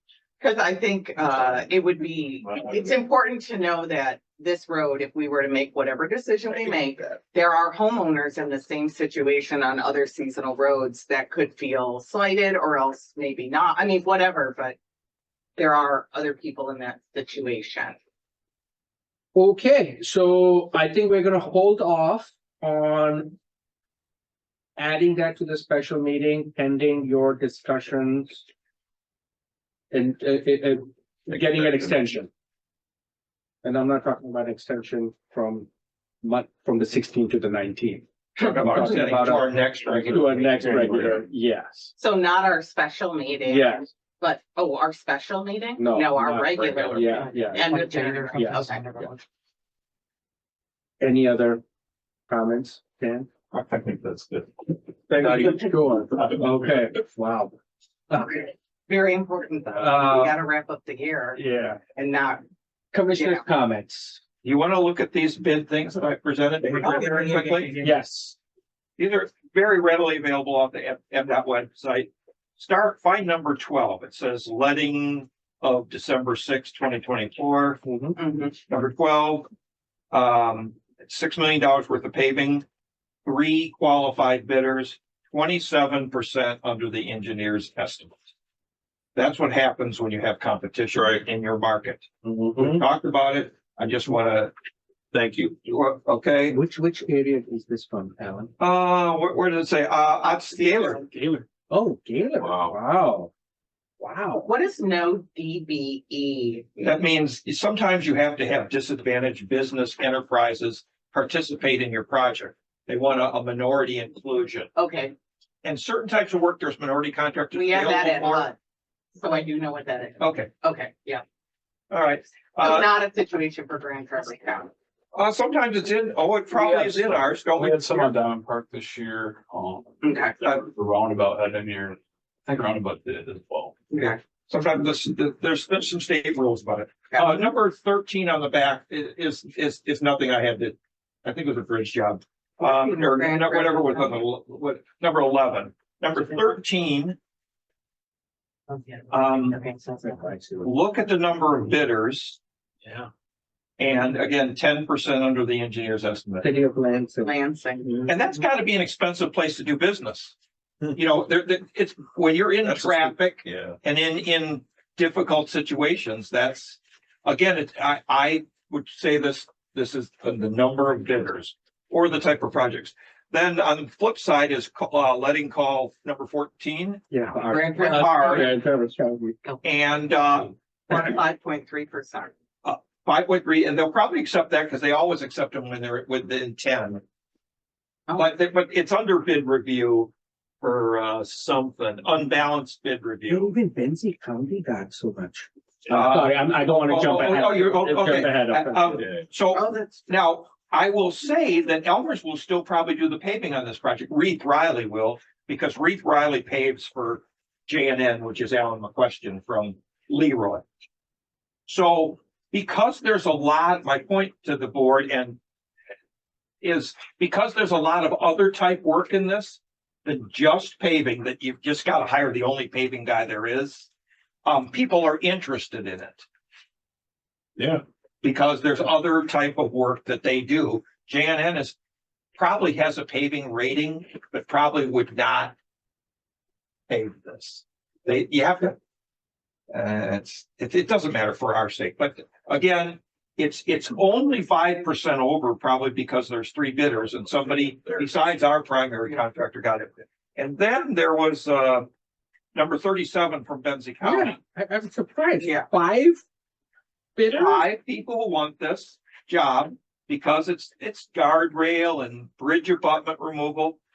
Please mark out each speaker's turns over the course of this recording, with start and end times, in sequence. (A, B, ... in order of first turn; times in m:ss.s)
0:00.4-0:14.8 A
0:15.6-0:18.0 A
0:19.3-0:23.4 B
0:24.8-0:28.4 B
0:29.9-0:32.3 B
0:33.6-0:35.7 B
0:36.2-0:41.9 B
0:38.4-0:40.9 C
0:40.7-0:41.0 D
0:42.0-0:49.2 A
0:43.4-0:43.9 B
0:45.8-0:49.1 B
0:51.0-0:51.6 B
0:52.3-0:53.3 B
0:53.5-0:54.4 E
0:55.1-0:57.5 B
0:55.2-0:55.6 E
0:56.1-0:56.4 E
0:58.1-0:58.5 B
0:58.9-1:01.4 A
0:59.8-1:00.4 B
1:01.4-1:01.8 B
1:01.9-1:02.4 A
1:02.9-1:04.2 B
1:03.1-1:03.4 A
1:04.4-1:07.9 C
1:06.8-1:07.8 A
1:07.8-1:08.4 B
1:09.0-1:17.8 C
1:17.8-1:18.2 B
1:18.2-1:18.5 A
1:18.6-1:19.5 C
1:20.1-1:22.6 C
1:23.2-1:28.2 C
1:29.2-1:34.5 C
1:30.9-1:31.2 E
1:32.2-1:32.7 D
1:35.1-1:35.6 E
1:35.6-1:36.6 C
1:36.5-1:38.5 B
1:38.6-1:41.0 C
1:40.2-1:41.0 A
1:41.5-1:43.3 B
1:42.4-1:42.8 E
1:44.0-1:44.5 B
1:44.4-1:47.0 A
1:46.8-1:54.7 C
1:54.8-1:55.1 A
1:55.6-1:58.5 C
1:57.5-1:58.6 A
1:59.1-2:01.2 A
2:00.2-2:00.5 C
2:01.9-2:03.0 C
2:02.6-2:04.7 A
2:05.1-2:08.1 C
2:06.5-2:13.8 D
2:10.0-2:10.3 A
2:13.9-2:14.2 A
2:14.0-2:27.2 C
2:17.1-2:17.4 A
2:22.6-2:24.2 A
2:28.7-2:30.3 A
2:29.1-2:29.6 C
2:30.0-2:30.7 B
2:30.6-2:32.4 C
2:33.8-2:36.5 C
2:36.4-2:37.4 B
2:37.2-2:38.2 A
2:38.1-2:40.3 C
2:40.9-2:57.0 C
2:42.7-2:43.8 E
2:57.1-2:59.4 B
2:57.4-2:58.6 A
2:57.6-2:58.5 C
2:59.6-3:00.5 C
3:00.9-3:02.3 A
3:02.6-3:07.0 C
3:08.1-3:10.1 C
3:10.6-3:13.5 C
3:13.3-3:19.0 B
3:15.9-3:30.6 C
3:19.5-3:20.1 A
3:31.7-3:35.4 C
3:36.6-3:43.9 C
3:44.4-3:46.2 C
3:48.2-3:51.8 C
3:52.4-3:55.5 C
3:56.9-3:58.8 C
3:59.7-4:11.9 C
4:07.5-4:08.0 E
4:12.5-4:14.4 C
4:14.0-4:16.2 B
4:17.2-4:17.6 B
4:17.2-4:23.8 C